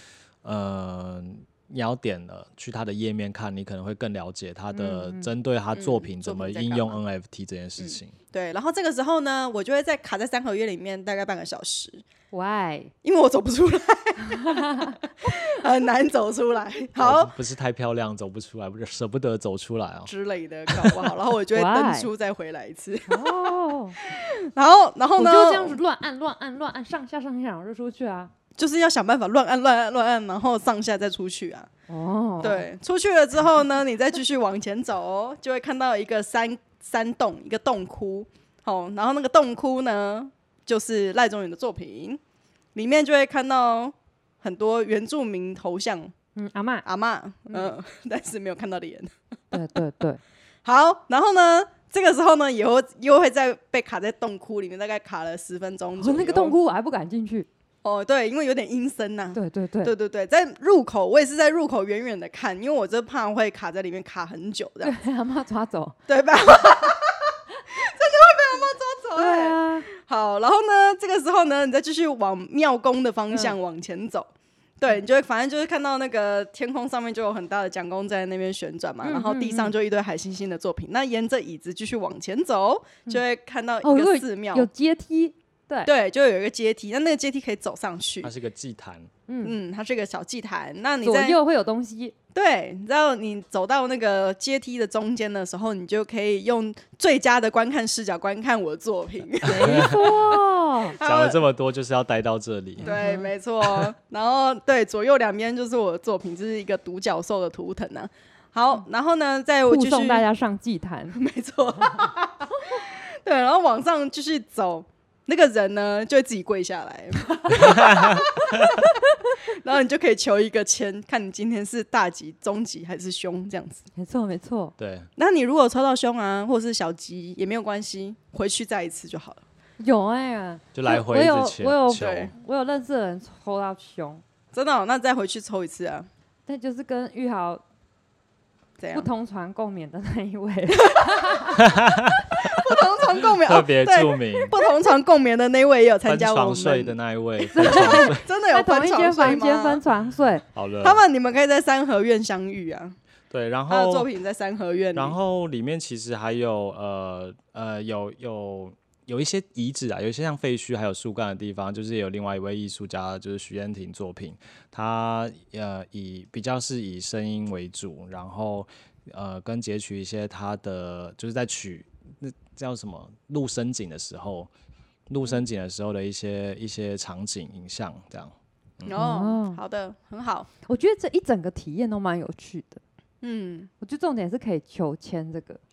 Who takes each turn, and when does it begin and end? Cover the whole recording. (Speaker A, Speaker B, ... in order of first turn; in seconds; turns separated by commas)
Speaker A: 0.4-8.1, Speaker B: 4.7-5.3, Speaker C: 5.7-7.0, Speaker C: 7.8-12.0, Speaker B: 12.3-12.9, Speaker C: 13.0-17.3, Speaker B: 14.3-15.0, Speaker A: 17.0-20.1, Speaker C: 20.1-25.8, Speaker A: 20.7-21.2, Speaker B: 21.5-22.1, Speaker B: 23.1-24.0, Speaker B: 25.1-28.3, Speaker C: 28.6-31.7, Speaker B: 31.9-32.6, Speaker C: 32.4-42.2, Speaker C: 42.7-46.1, Speaker B: 46.4-46.8, Speaker C: 46.8-49.1, Speaker B: 47.5-47.7, Speaker B: 49.5-50.2, Speaker C: 50.6-56.6, Speaker B: 56.0-57.5, Speaker C: 57.8-65.0, Speaker B: 59.3-59.9, Speaker B: 64.8-66.0, Speaker C: 66.1-84.7, Speaker B: 69.1-69.9, Speaker B: 79.0-79.7, Speaker B: 83.8-85.9, Speaker C: 85.8-88.3, Speaker A: 88.2-89.1, Speaker B: 89.3-89.5, Speaker C: 89.4-91.4, Speaker B: 91.0-92.1, Speaker C: 92.3-101.4, Speaker B: 99.4-101.0, Speaker A: 99.5-100.1, Speaker A: 101.0-102.9, Speaker B: 102.8-103.3, Speaker C: 102.8-110.3, Speaker A: 103.6-103.9, Speaker B: 109.7-111.2, Speaker C: 111.1-123.9, Speaker A: 117.5-118.7, Speaker B: 124.0-124.7, Speaker A: 124.8-125.1, Speaker C: 125.2-129.4, Speaker B: 129.8-134.2, Speaker A: 130.7-132.3, Speaker C: 131.9-132.3, Speaker C: 134.5-136.1, Speaker B: 136.5-137.6, Speaker C: 138.8-139.1, Speaker B: 138.9-141.6, Speaker C: 140.8-141.4, Speaker A: 141.6-144.5, Speaker C: 142.3-146.9, Speaker A: 146.1-148.2, Speaker B: 147.5-150.4, Speaker C: 147.6-149.8, Speaker A: 150.5-151.0, Speaker C: 150.8-152.9, Speaker A: 153.3-154.1, Speaker C: 153.7-155.2, Speaker A: 154.9-174.5, Speaker A: 175.1-179.0, Speaker C: 178.8-180.5, Speaker B: 178.9-179.6, Speaker B: 180.6-182.8, Speaker C: 183.2-183.7, Speaker B: 183.8-185.6